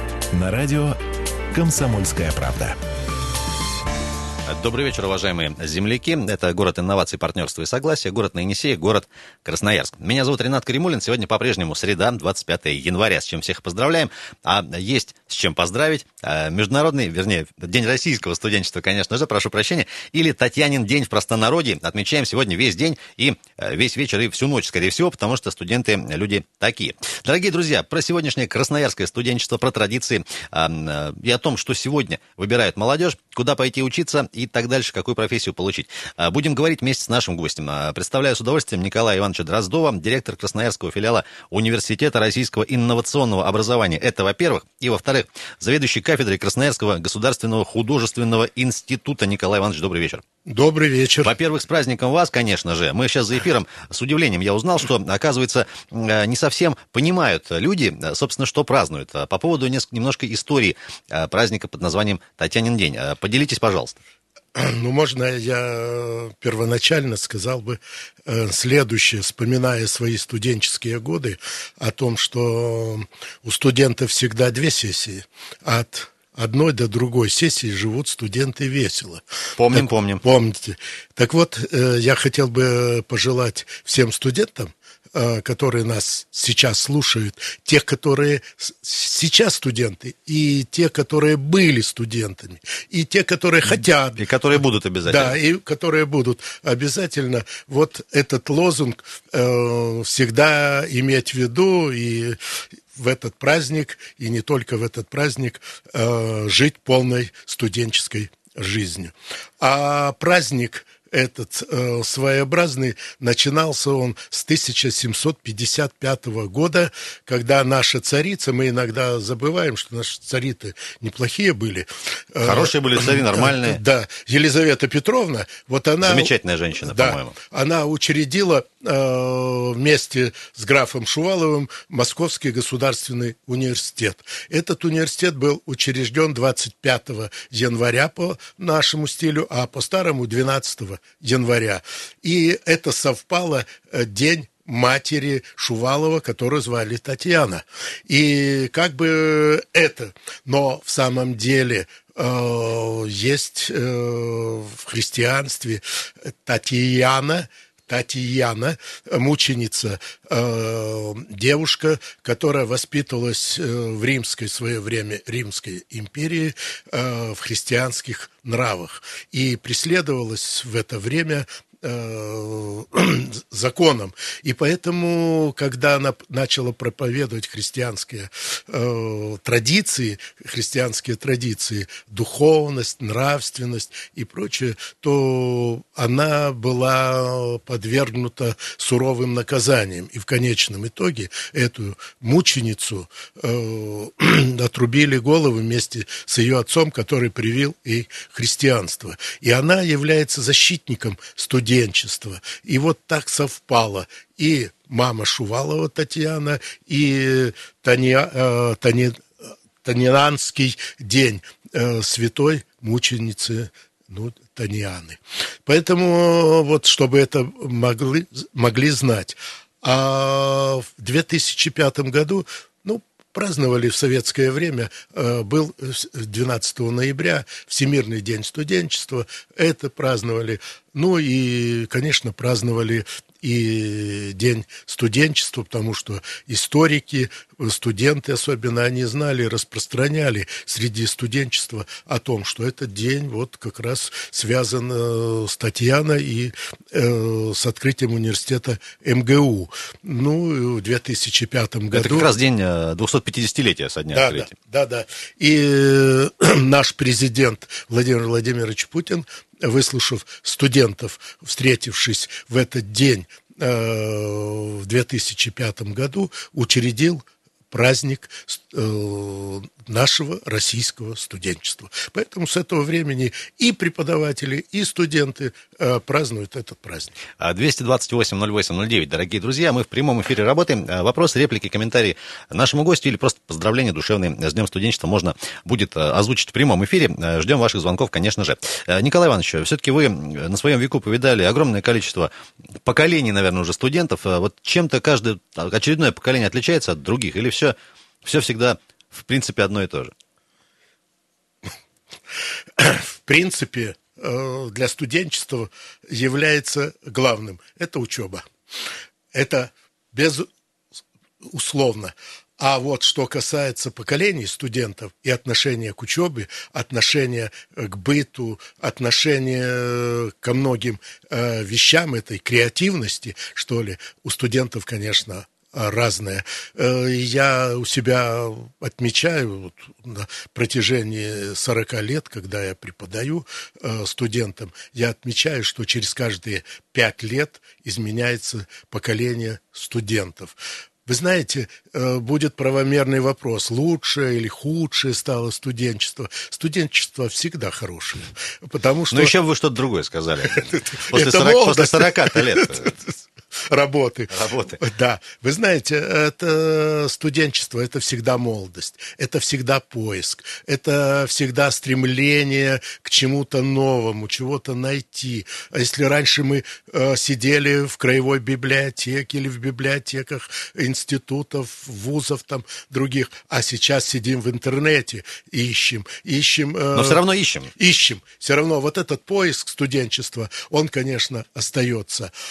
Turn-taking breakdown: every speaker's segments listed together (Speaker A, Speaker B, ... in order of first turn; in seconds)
Speaker A: 0.3-1.0, 1.5-2.8
Speaker B: 4.5-50.2, 51.2-64.0, 79.6-80.2, 94.2-95.3, 122.4-123.8, 126.0-127.3, 251.9-254.5, 277.4-292.3, 292.8-300.1, 349.1-352.9, 354.3-354.8, 376.9-377.7
Speaker C: 50.5-51.3, 64.5-94.2, 95.0-102.4, 102.9-209.3, 209.8-252.3, 254.1-277.2, 302.8-308.4, 309.3-310.5, 311.4-349.3, 350.5-377.2, 377.8-382.3